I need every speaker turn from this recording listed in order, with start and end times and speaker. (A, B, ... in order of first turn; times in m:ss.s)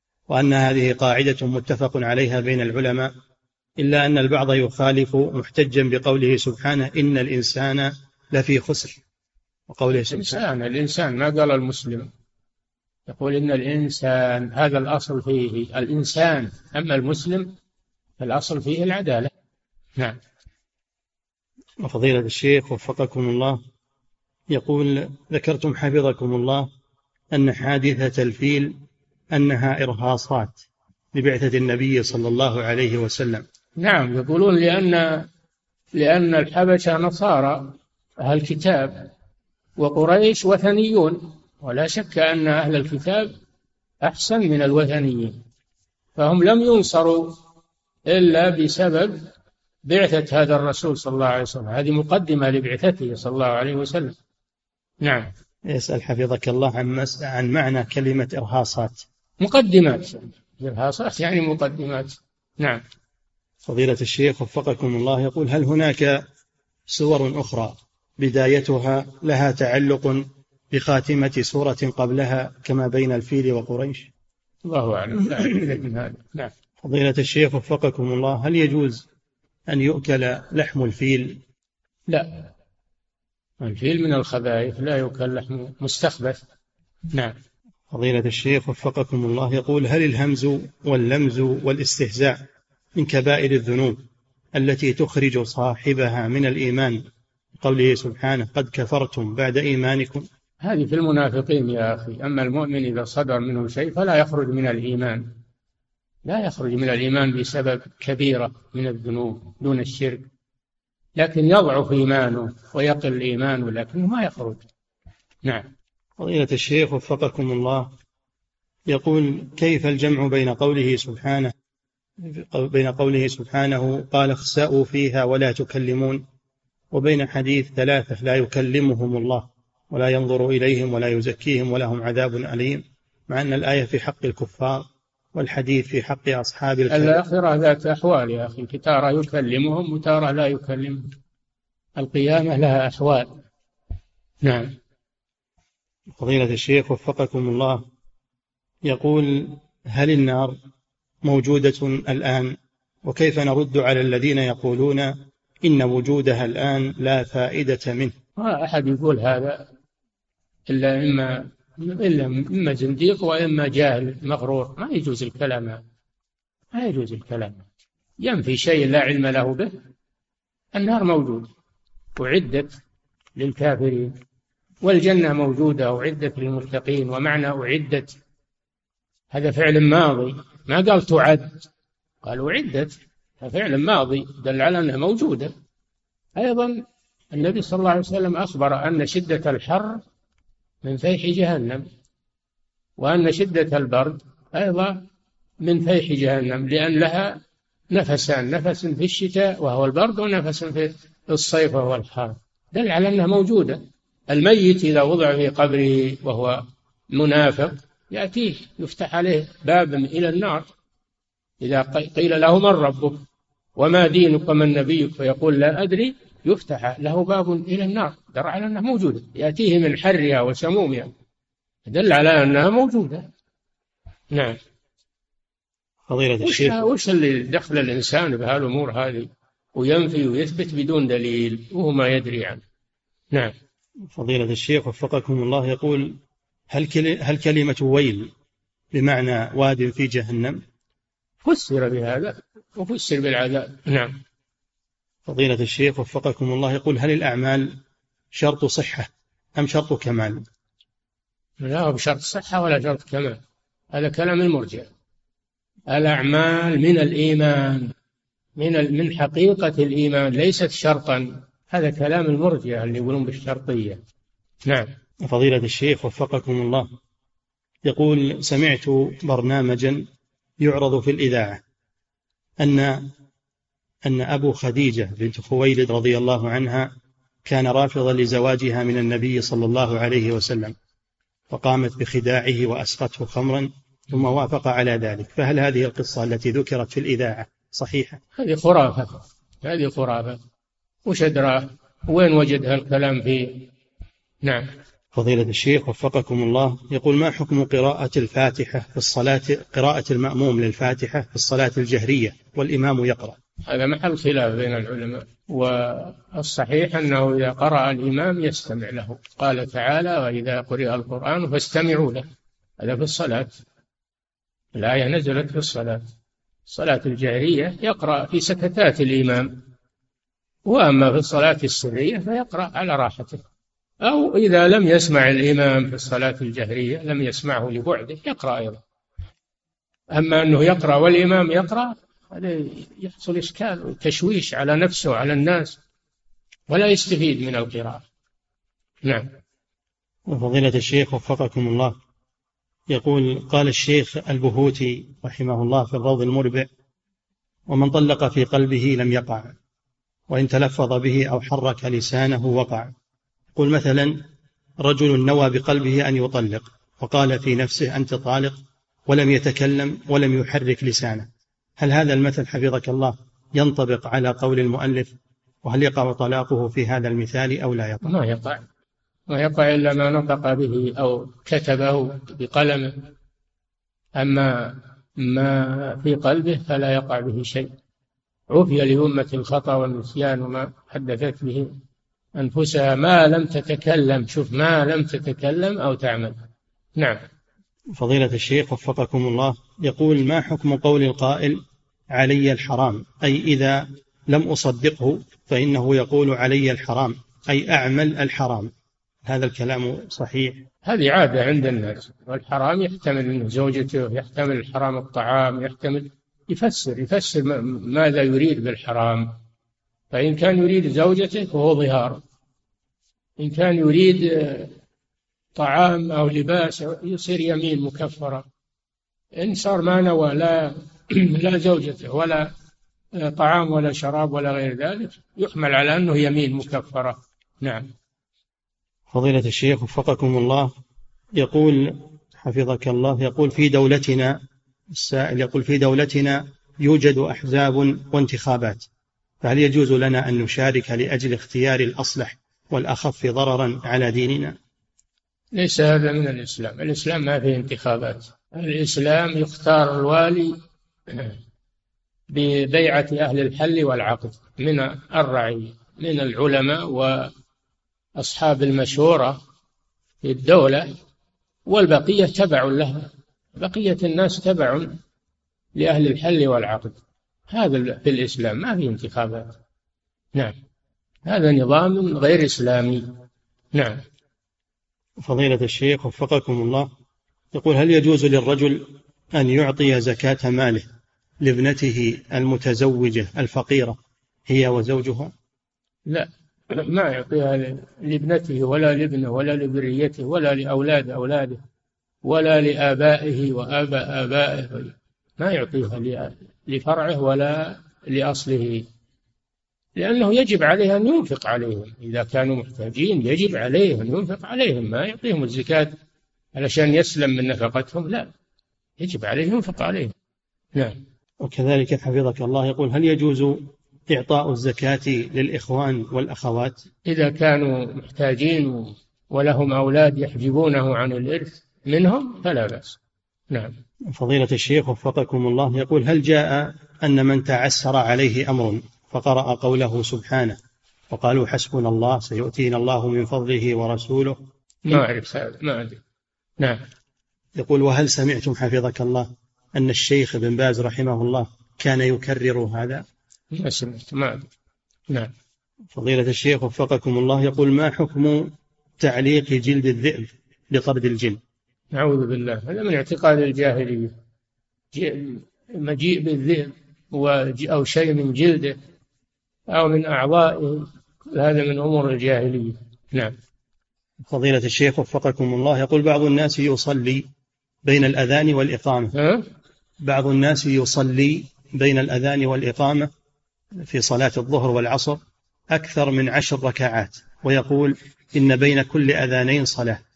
0:00.3-0:03.1 A
0:03.8-0:09.0 A
0:09.7-0:10.4 A
0:09.9-0:12.1 B
0:13.1-0:17.5 B
0:18.2-0:19.3 B
0:21.8-0:23.6 A
0:24.5-0:26.7 A
0:27.3-0:28.8 A
0:29.3-0:30.6 A
0:31.1-0:33.4 A
0:33.8-0:35.3 B
0:36.0-0:39.1 B
0:39.8-0:43.3 B
0:44.0-0:45.4 B
0:46.2-0:47.4 B
0:48.1-0:49.2 B
0:49.9-0:54.2 B
0:55.0-0:55.3 B
0:55.7-0:59.0 A
0:59.4-1:02.8 B
1:03.6-1:06.2 A
1:06.9-1:14.1 A
1:14.7-1:16.5 B
1:16.8-1:19.0 A
1:19.7-1:21.4 A
1:22.1-1:22.5 B
1:23.6-1:26.4 B
1:27.9-1:32.4 A
1:33.0-1:34.0 A
1:34.5-1:37.0 A
1:37.6-1:40.3 A
1:40.6-1:45.3 B
1:46.2-1:50.3 B
1:51.2-1:54.6 B
1:55.4-1:55.7 B
1:56.2-1:57.9 A
1:58.9-2:01.5 A
2:02.2-2:06.2 A
2:06.9-2:17.2 A
2:16.9-2:21.1 B
2:22.0-2:23.3 B
2:24.4-2:24.8 B
2:26.2-2:27.8 A
2:28.8-2:30.6 A
2:31.2-2:38.1 A
2:38.4-2:39.7 B
2:40.7-2:45.8 B
2:46.7-2:47.7 B
2:48.2-2:49.7 B
2:50.7-2:51.5 B
2:52.2-2:52.8 B
2:53.4-2:54.2 B
2:54.8-2:58.2 B
2:59.3-3:01.7 B
3:02.2-3:05.5 B
3:06.4-3:06.8 B
3:07.3-3:10.0 B
3:10.8-3:11.9 B
3:13.0-3:15.0 B
3:15.6-3:17.4 B
3:17.9-3:30.7 B
3:31.6-3:33.2 B
3:33.8-3:41.1 B
3:41.9-3:43.3 B
3:44.3-3:44.6 B
3:46.1-3:46.8 A
3:46.4-3:52.6 B
3:54.1-3:56.2 A
3:56.7-3:58.3 A
3:58.9-4:00.6 A
4:01.4-4:04.2 B
4:05.3-4:07.8 A
4:08.3-4:10.4 A
4:11.6-4:13.4 B
4:13.9-4:14.9 B
4:15.9-4:17.9 B
4:18.6-4:24.0 B
4:24.6-4:24.9 B
4:25.2-4:26.9 A
4:27.8-4:30.1 A
4:30.6-4:31.6 A
4:32.6-4:33.1 A
4:34.0-4:36.9 A
4:37.4-4:40.7 A
4:41.5-4:48.2 A
4:48.4-4:50.4 B
4:51.1-4:53.7 B
4:54.4-4:54.7 B
4:55.1-5:03.4 A
5:03.7-5:12.3 B
5:12.8-5:13.6 B
5:14.8-5:16.1 B
5:16.7-5:19.6 B
5:20.6-5:23.4 B
5:24.0-5:28.8 B
5:30.1-5:35.8 B
5:36.7-5:38.0 B
5:39.0-5:39.3 B
5:40.3-5:42.0 A
5:42.9-5:46.7 A
5:47.7-5:49.6 A
5:50.3-5:52.9 A
5:53.6-5:54.2 A
5:54.8-6:01.3 A
6:01.8-6:08.1 A
6:08.0-6:08.6 B
6:09.3-6:13.0 B
6:14.2-6:17.7 B
6:18.5-6:21.7 B
6:22.4-6:26.4 B
6:27.0-6:27.2 B
6:28.0-6:38.7 A
6:39.2-6:40.6 A
6:40.9-6:49.4 B
6:50.1-6:52.2 B
6:53.4-6:54.7 B
6:55.6-6:58.5 B
6:59.4-7:02.5 B
7:03.2-7:07.9 B
7:09.1-7:10.7 A
7:11.4-7:14.4 A
7:14.9-7:18.9 A
7:19.4-7:24.6 A
7:25.5-7:30.6 B
7:31.1-7:31.4 B
7:32.3-7:37.3 B
7:38.2-7:39.4 B
7:40.2-7:40.9 B
7:41.7-7:45.0 B
7:45.8-7:47.0 B
7:47.5-7:49.5 B
7:51.3-7:53.1 B
7:53.7-7:54.0 B
7:55.2-7:56.9 A
7:57.5-8:00.9 A
8:01.4-8:05.3 A
8:06.1-8:11.6 B
8:12.2-8:18.9 B
8:20.0-8:25.9 B
8:26.6-8:28.3 B
8:29.0-8:30.1 B
8:31.4-8:36.8 A
8:37.1-8:43.0 B
8:44.1-8:50.6 A
8:51.1-8:54.4 A
8:54.9-8:56.0 B
8:57.6-9:03.0 A
9:03.5-9:04.5 B
9:05.9-9:11.4 A
9:11.9-9:14.1 B
9:14.9-9:18.8 B
9:19.7-9:23.3 B
9:24.3-9:27.3 A
9:27.8-9:29.1 A
9:29.1-9:29.4 B
9:30.0-9:33.1 A
9:33.9-9:35.2 A
9:35.7-9:40.0 A